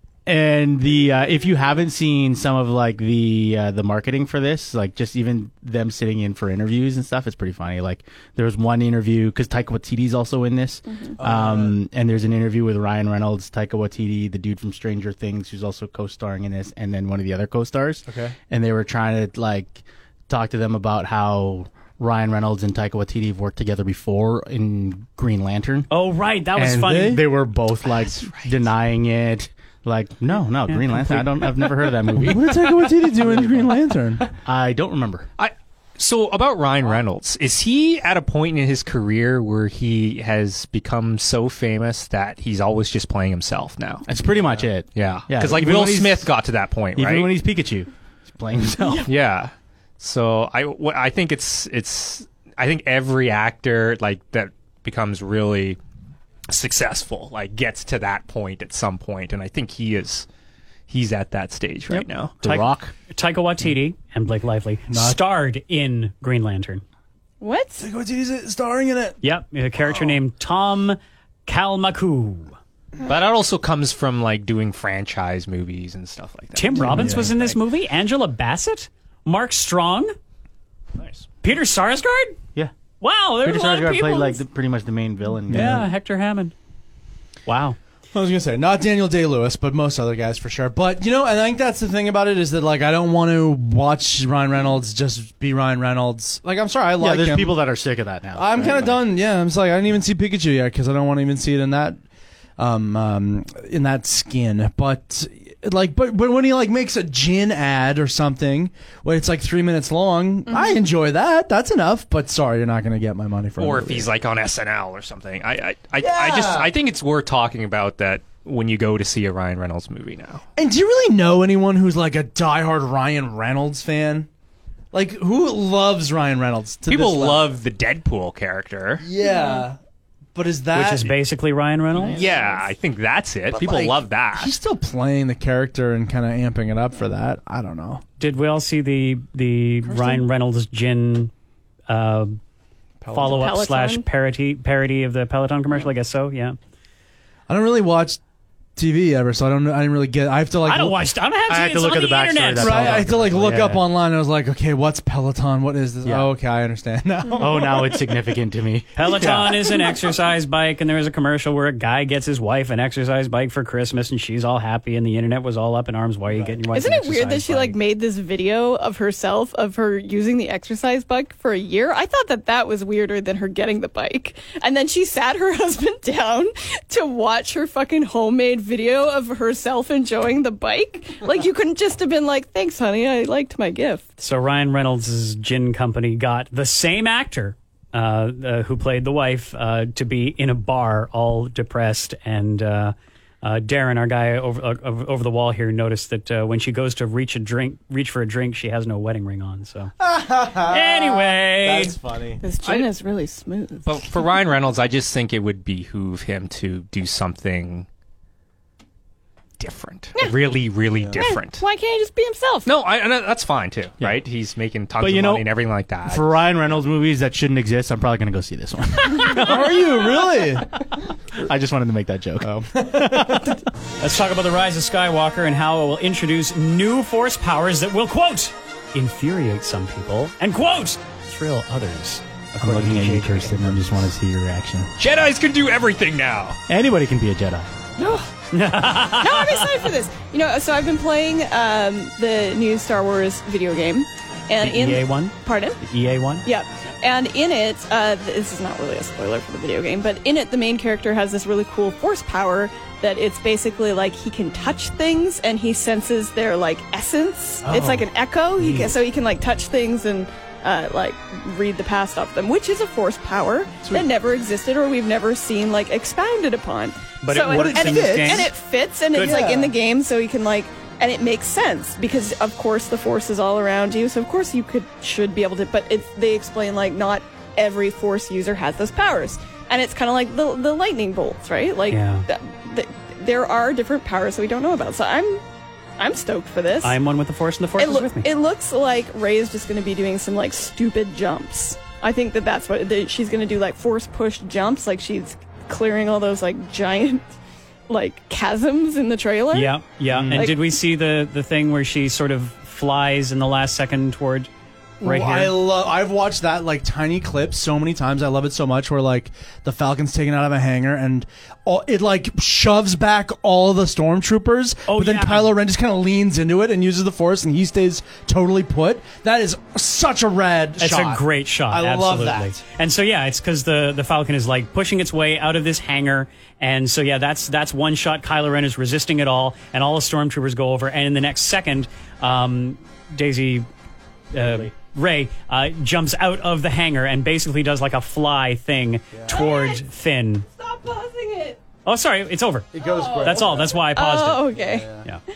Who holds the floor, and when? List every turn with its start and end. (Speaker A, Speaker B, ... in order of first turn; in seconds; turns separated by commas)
Speaker A: 0.2-25.9, Speaker B: 11.2-11.8, Speaker B: 18.1-18.3, Speaker C: 25.9-27.2, Speaker A: 26.6-33.7, Speaker B: 26.8-27.2, Speaker C: 30.7-31.9, Speaker B: 32.1-34.2, Speaker A: 34.4-35.3, Speaker D: 35.4-44.1, Speaker A: 44.1-46.3, Speaker D: 44.9-47.3, Speaker A: 47.0-49.1, Speaker D: 49.0-55.8, Speaker D: 56.5-60.2, Speaker D: 60.9-62.6, Speaker A: 61.9-62.9, Speaker C: 63.1-66.8, Speaker B: 64.9-65.2, Speaker E: 67.4-67.9, Speaker B: 67.8-69.2, Speaker C: 69.2-72.5, Speaker D: 73.0-77.6, Speaker C: 76.5-80.1, Speaker B: 76.8-77.3, Speaker D: 81.0-81.3, Speaker C: 81.4-82.4, Speaker C: 83.0-84.4, Speaker A: 83.4-85.8, Speaker B: 85.5-85.8, Speaker C: 85.5-86.5, Speaker C: 87.5-87.8, Speaker B: 88.1-97.6, Speaker A: 97.0-99.0, Speaker B: 98.3-102.0, Speaker B: 102.6-114.1, Speaker D: 113.6-120.4, Speaker B: 116.0-116.7, Speaker B: 120.5-124.3, Speaker B: 124.9-127.5, Speaker D: 126.8-129.0, Speaker B: 129.0-129.8, Speaker E: 129.2-129.6, Speaker B: 130.3-131.1, Speaker C: 130.7-132.2, Speaker D: 132.1-134.5, Speaker B: 133.5-138.0, Speaker C: 138.2-141.3, Speaker B: 139.9-140.2, Speaker C: 141.9-142.4, Speaker B: 143.0-143.5, Speaker C: 143.1-146.6, Speaker E: 143.2-144.0, Speaker B: 147.5-148.2, Speaker B: 148.8-151.1, Speaker C: 150.6-153.0, Speaker A: 151.5-153.8, Speaker B: 152.6-158.1, Speaker A: 156.0-156.3, Speaker A: 157.4-158.9, Speaker C: 158.9-167.8, Speaker B: 159.0-159.7, Speaker E: 166.7-184.1, Speaker C: 184.2-199.9, Speaker B: 200.0-202.4, Speaker C: 200.7-201.9, Speaker E: 202.4-204.2, Speaker D: 202.6-202.9, Speaker D: 203.8-207.9, Speaker D: 209.6-211.6, Speaker E: 211.2-212.7, Speaker D: 212.6-216.3, Speaker A: 215.0-215.4, Speaker A: 216.1-220.2, Speaker B: 219.3-220.7, Speaker A: 221.3-223.6, Speaker B: 222.4-223.6, Speaker C: 224.0-234.0, Speaker A: 232.6-234.9, Speaker D: 235.0-236.6, Speaker A: 236.7-237.7, Speaker E: 238.0-238.3, Speaker C: 238.5-239.7, Speaker E: 239.0-245.8, Speaker C: 244.6-246.4, Speaker E: 246.4-285.4, Speaker B: 257.6-258.0, Speaker C: 258.6-258.9, Speaker B: 263.8-264.1, Speaker C: 267.2-268.5, Speaker B: 267.3-268.5, Speaker B: 269.1-269.7, Speaker C: 281.9-282.2, Speaker E: 286.0-287.0, Speaker C: 286.8-288.3, Speaker E: 287.8-297.3, Speaker E: 297.9-299.8, Speaker C: 299.5-304.5, Speaker B: 300.1-300.5, Speaker E: 300.3-300.7, Speaker B: 305.0-322.6, Speaker C: 305.0-305.6, Speaker C: 314.9-315.5, Speaker C: 320.8-333.7, Speaker C: 334.3-340.4, Speaker B: 339.1-339.5, Speaker E: 339.3-339.8, Speaker E: 340.6-341.6, Speaker C: 341.8-342.7, Speaker B: 342.7-343.8, Speaker E: 342.8-344.9, Speaker C: 343.2-344.5, Speaker B: 344.5-345.1